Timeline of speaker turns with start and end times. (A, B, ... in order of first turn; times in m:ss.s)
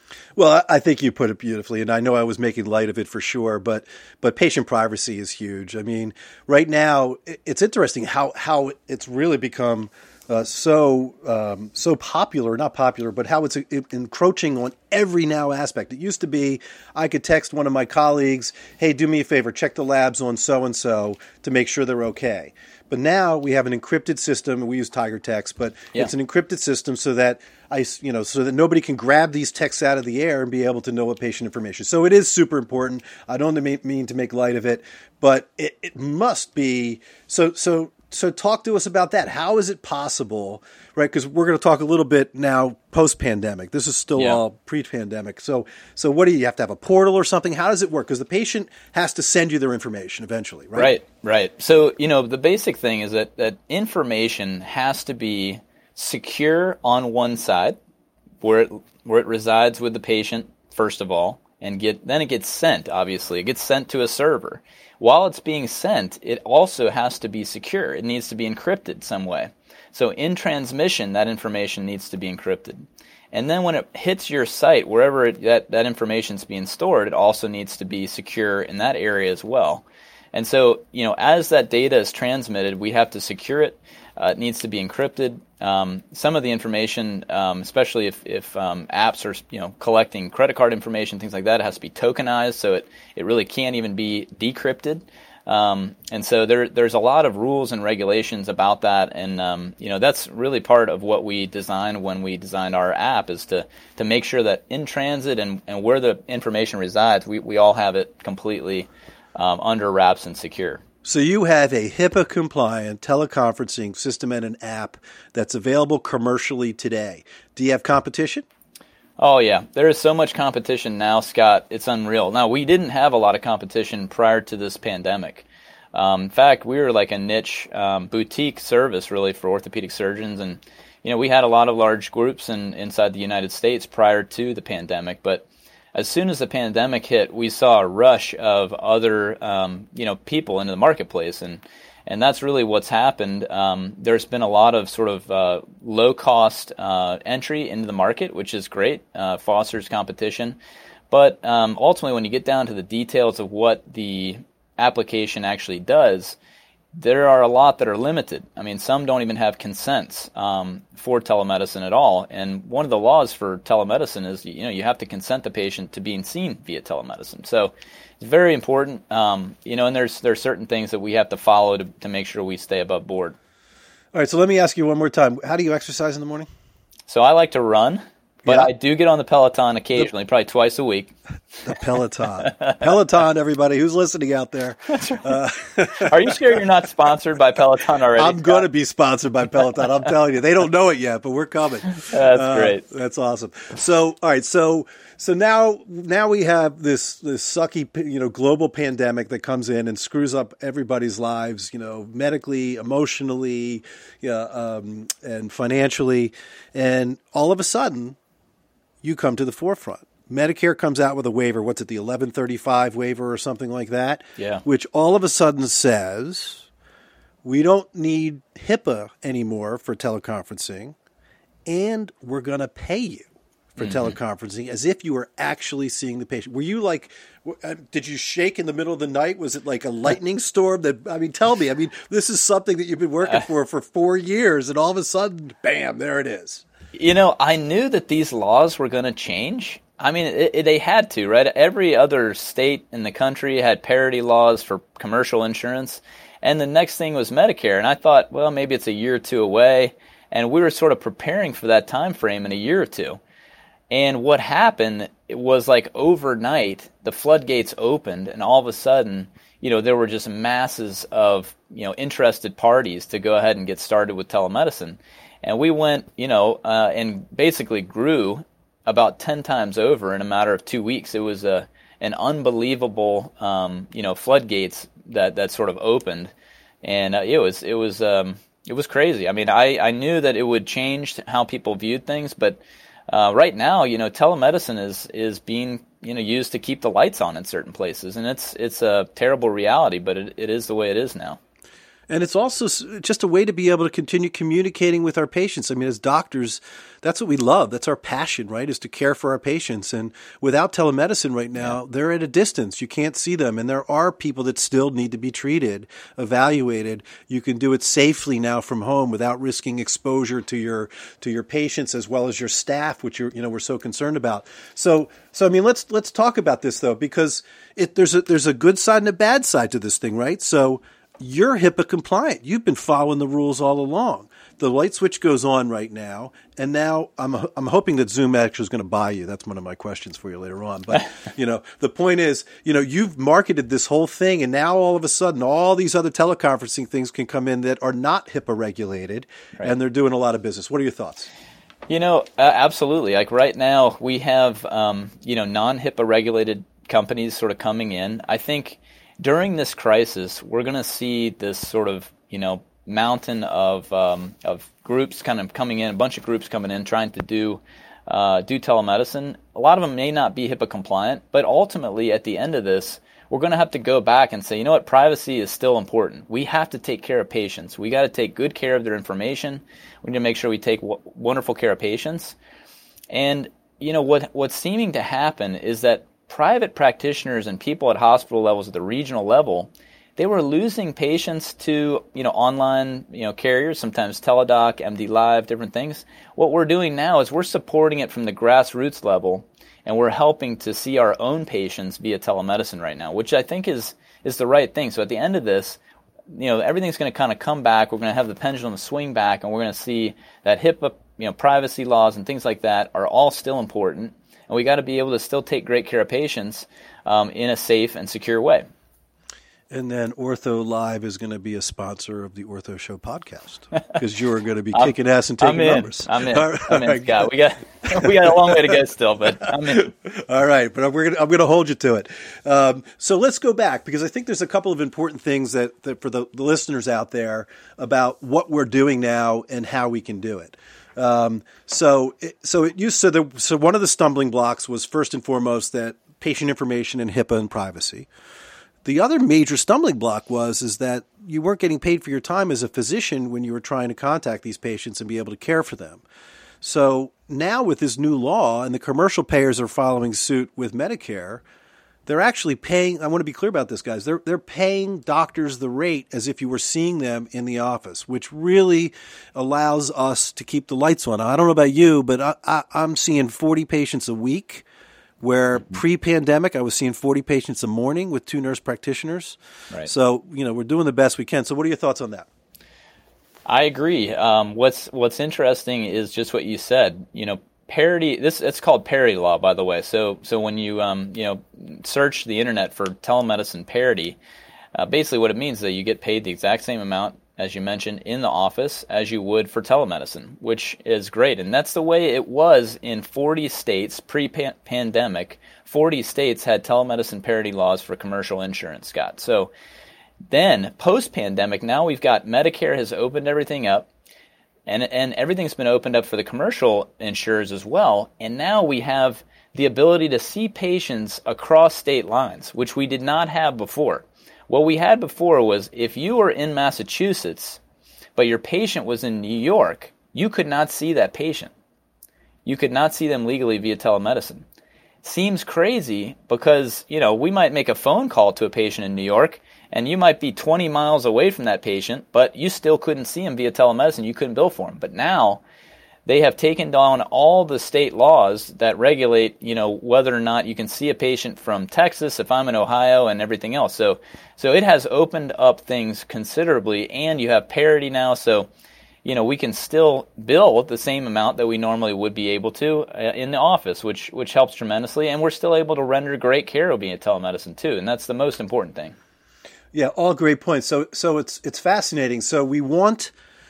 0:00.4-0:50.9 A
0:50.8-0:57.8 B
0:58.4-1:50.8 B
1:51.0-1:58.4 A
1:59.2-2:30.6 B
2:31.1-2:36.4 B
2:36.9-2:53.4 B
2:54.1-2:56.5 A
2:57.1-3:01.1 B
3:01.6-3:06.4 A
3:05.0-3:05.2 B
3:06.0-3:08.6 B
3:08.2-3:28.2 A
3:12.0-3:12.8 B
3:29.0-3:36.7 A
3:34.4-3:34.6 B
3:37.4-3:41.0 A
3:41.7-3:56.6 A
3:43.8-3:44.2 B
3:56.9-4:13.2 B
4:13.9-4:51.4 B
4:52.1-5:41.3 A
5:41.9-6:12.4 B
6:13.1-6:48.6 B
6:49.7-6:57.3 A
6:54.7-6:59.9 B
6:57.9-6:58.8 A
6:59.4-7:18.1 A
7:18.8-7:26.0 A
7:26.6-7:31.4 A
7:32.0-7:44.7 A
7:45.2-7:52.3 A
7:53.5-8:04.2 B
8:04.8-8:19.5 B
8:20.3-8:23.9 B
8:24.7-8:37.6 B
8:38.2-8:41.5 B
8:42.4-8:44.5 B
8:45.0-8:55.4 B
8:56.0-9:08.5 B
9:09.0-9:19.0 B
9:19.7-9:23.1 A